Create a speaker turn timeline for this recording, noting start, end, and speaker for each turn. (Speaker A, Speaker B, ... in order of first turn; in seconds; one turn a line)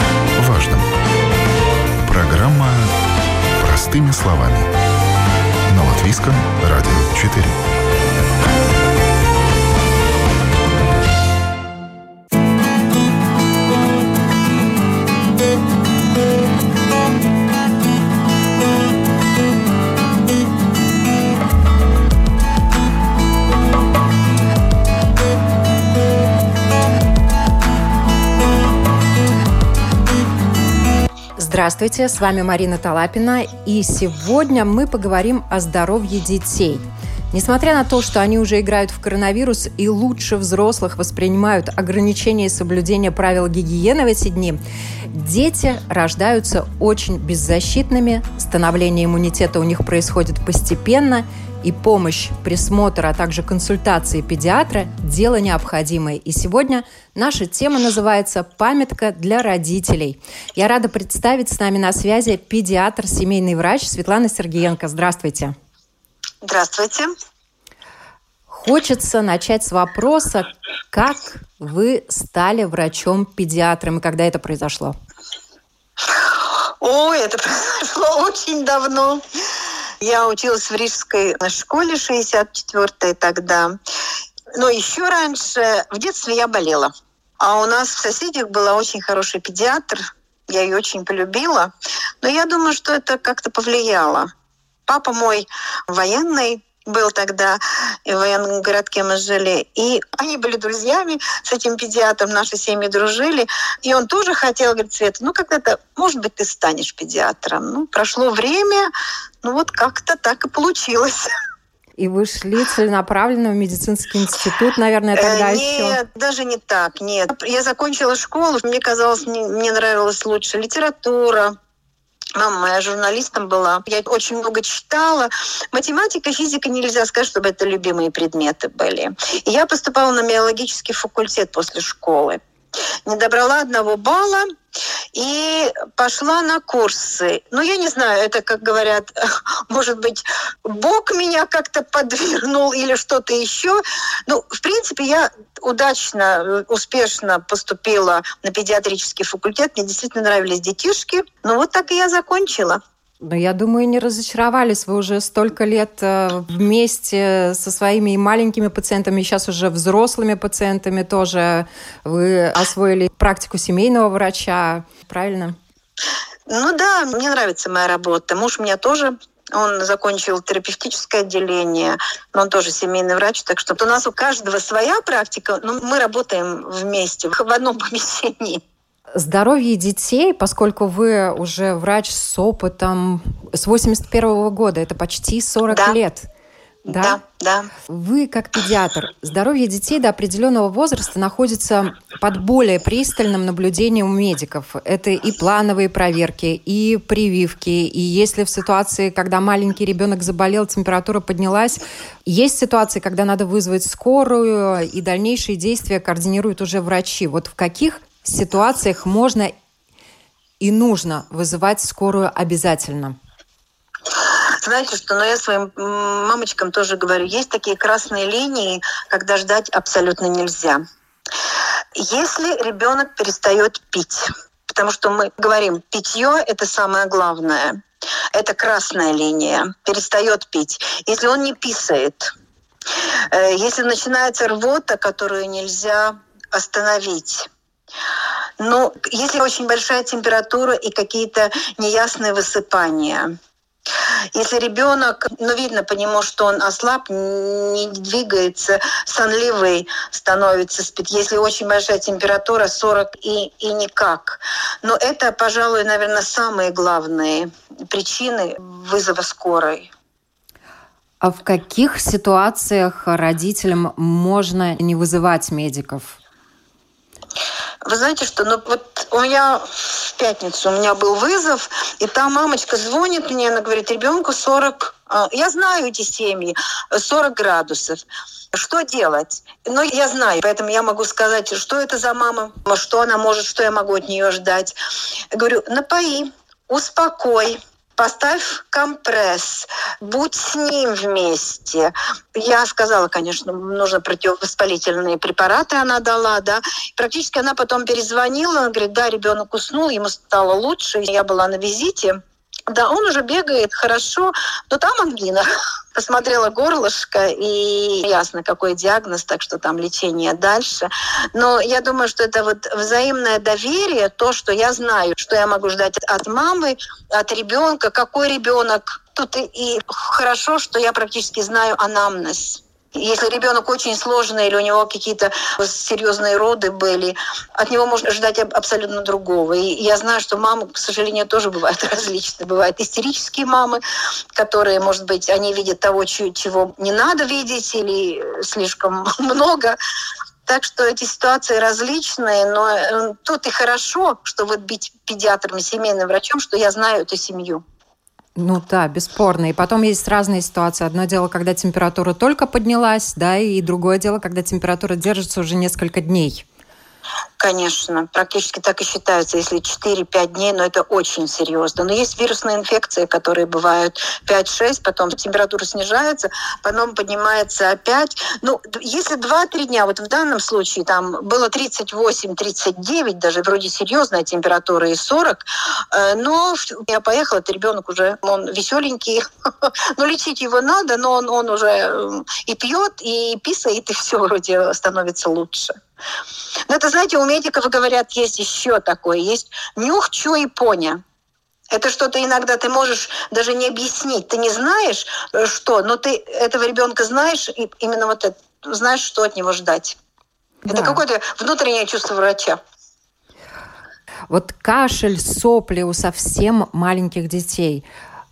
Speaker A: 0.4-0.9
Speaker A: 2.0-2.9
Speaker A: 3.6-4.7
Speaker A: 5.7-7.6
Speaker B: 31.4-65.5
Speaker C: 66.4-67.1
Speaker B: 68.5-74.9
Speaker C: 76.1-79.2
Speaker C: 80.0-83.8
Speaker C: 84.5-94.3
Speaker C: 94.9-108.9
Speaker C: 109.4-111.3
Speaker B: 112.0-116.0
Speaker C: 115.1-121.5
Speaker C: 122.3-132.4
Speaker C: 133.1-134.5
Speaker C: 135.1-152.8
Speaker B: 153.2-165.6
Speaker C: 166.5-178.6
Speaker B: 179.1-186.3
Speaker C: 185.7-186.0
Speaker C: 186.9-187.7
Speaker B: 186.9-187.2
Speaker B: 187.9-209.5
Speaker B: 210.6-213.2
Speaker C: 214.6-220.8
Speaker C: 221.9-227.8
Speaker C: 228.3-232.3
Speaker C: 233.0-237.5
Speaker C: 238.6-243.3
Speaker C: 244.3-259.9
Speaker B: 261.2-266.2
Speaker C: 267.8-284.7
Speaker C: 285.3-333.8
Speaker C: 334.3-339.8
Speaker C: 340.4-347.6
Speaker B: 348.4-356.4
Speaker C: 357.4-385.7
Speaker C: 386.7-391.0
Speaker C: 391.7-400.0
Speaker B: 400.6-401.0
Speaker C: 400.7-402.6
Speaker B: 404.3-407.8